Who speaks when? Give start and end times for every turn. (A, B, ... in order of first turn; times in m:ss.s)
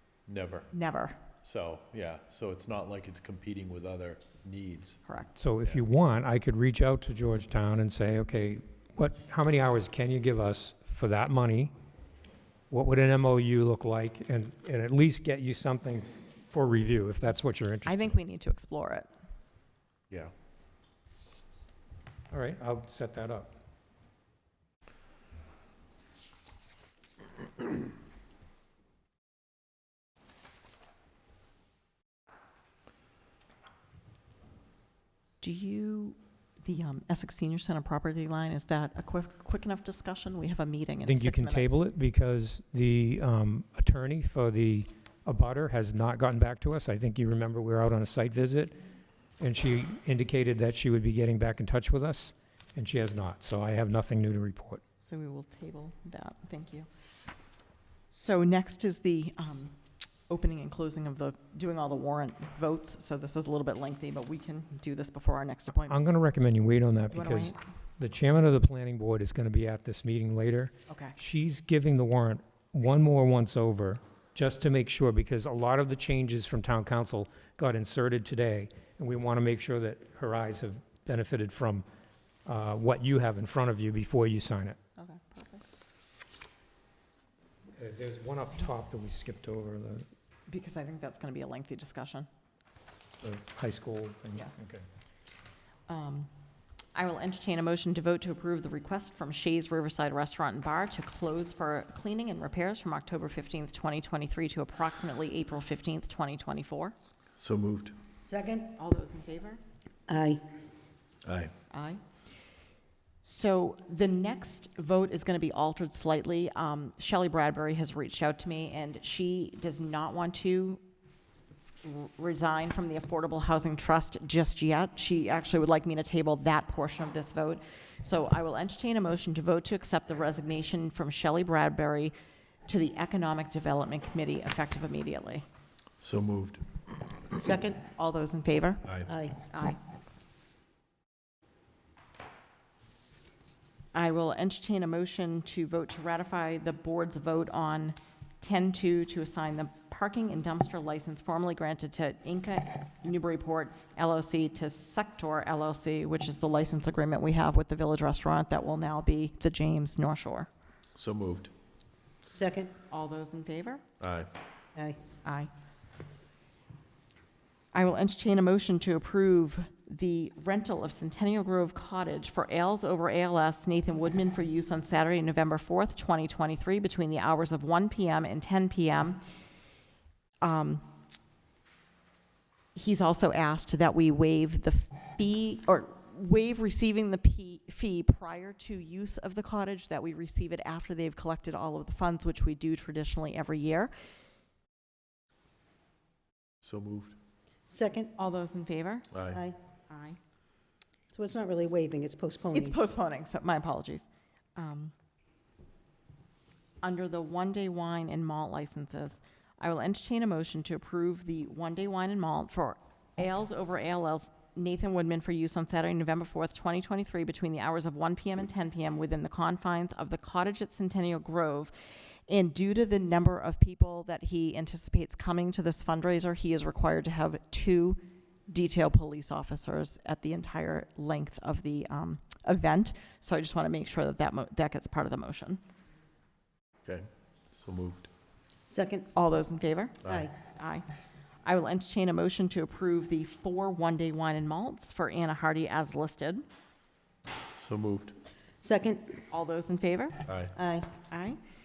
0:00.3-0:00.7 A
0:00.7-0:01.2 B
0:01.4-0:05.0 A
0:05.1-0:05.3 B
0:05.4-0:11.7 C
0:12.7-0:18.2 C
0:17.8-0:19.1 B
0:22.3-0:23.5 C
0:35.4-0:41.9 B
0:41.0-0:48.7 C
0:49.4-0:54.8 C
0:55.0-0:56.9 B
0:58.1-0:59.8 B
1:00.3-1:06.0 B
1:05.8-1:21.8 C
1:07.1-1:07.6 B
1:10.9-1:11.2 B
1:22.4-1:24.8 C
1:25.0-1:25.6 B
1:27.8-1:30.0 C
1:30.5-1:32.3 B
1:33.2-1:34.8 C
1:34.3-1:34.7 B
1:35.9-1:36.3 B
1:36.9-1:46.9 B
1:47.4-1:48.0 A
1:48.2-1:48.7 D
1:48.8-1:49.6 B
1:50.1-1:50.4 D
1:51.2-1:51.5 A
1:51.7-1:52.0 B
1:53.2-2:00.8 B
2:01.8-2:12.1 B
2:12.7-2:15.4 B
2:16.0-2:16.6 A
2:17.3-2:17.8 D
2:17.9-2:18.8 B
2:19.0-2:19.4 D
2:19.5-2:19.8 B
2:23.9-2:40.5 B
2:41.0-2:41.5 A
2:42.3-2:42.7 D
2:42.9-2:43.8 B
2:44.0-2:44.3 A
2:44.7-2:45.0 D
2:45.2-2:45.5 B
2:47.7-2:59.2 B
3:00.4-3:00.8 B
3:02.7-3:13.9 B
3:16.6-3:17.2 A
3:17.7-3:18.1 D
3:18.2-3:19.1 B
3:19.1-3:19.4 A
3:19.3-3:19.6 D
3:19.9-3:20.2 B
3:21.1-3:22.8 D
3:22.5-3:24.9 B
3:26.8-3:41.7 B
3:42.3-3:55.6 B
3:56.8-3:58.1 A
3:58.7-3:59.1 D
3:59.1-4:00.8 B
4:00.0-4:00.3 D
4:01.4-4:06.4 B
4:07.6-4:08.2 A
4:08.6-4:09.2 D
4:09.3-4:10.2 B
4:10.3-4:10.5 A
4:10.5-4:10.9 D
4:11.1-4:11.4 B